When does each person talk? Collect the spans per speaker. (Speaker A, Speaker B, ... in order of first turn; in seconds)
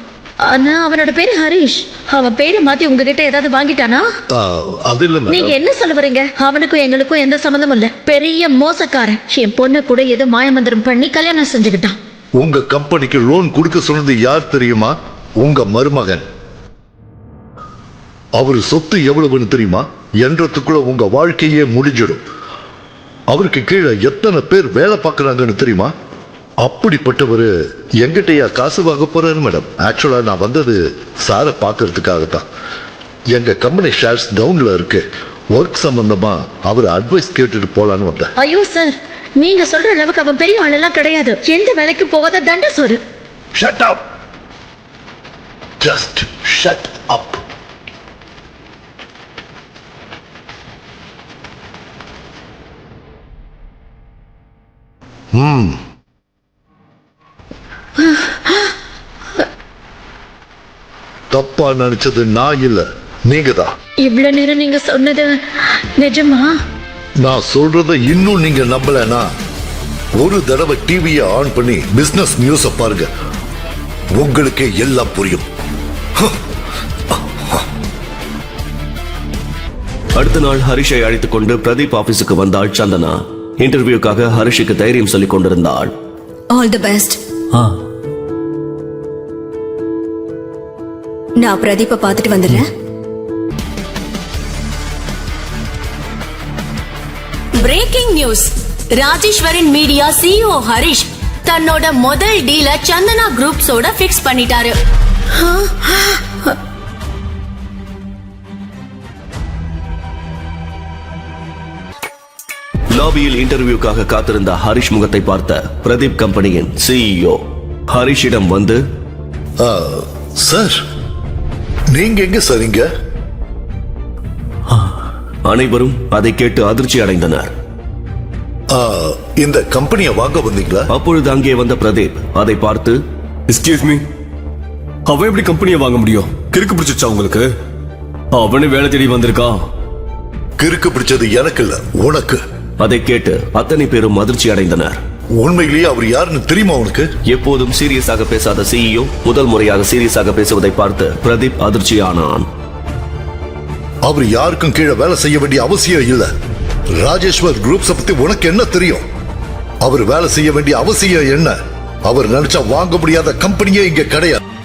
Speaker A: 0.4-4.1, 5.3-12.0, 38.4-43.0, 58.0-58.7, 64.0-66.5, 105.4-106.2
Speaker B: 4.3-5.6, 12.4-16.2, 18.4-22.2, 23.3-25.9, 26.6-32.5, 33.3-38.3, 43.5-44.0, 45.8-47.4, 55.3-55.8, 61.3-63.7, 67.2-69.3, 70.2-73.1, 74.2-75.5, 77.1-77.6, 119.6-120.8, 121.9-122.9, 128.7-130.9, 140.6-142.4, 145.4-147.1, 154.1-156.3, 157.0-159.1, 159.8-161.6, 162.1-164.4
Speaker C: 80.1-85.9, 112.9-118.8, 125.5-127.5, 130.9-133.0, 142.8-145.0, 147.3-152.5
Speaker D: 86.5-87.2, 91.4-92.7
Speaker E: 97.6-104.8
Speaker F: 133.5-134.1, 135.1-137.5, 138.3-139.7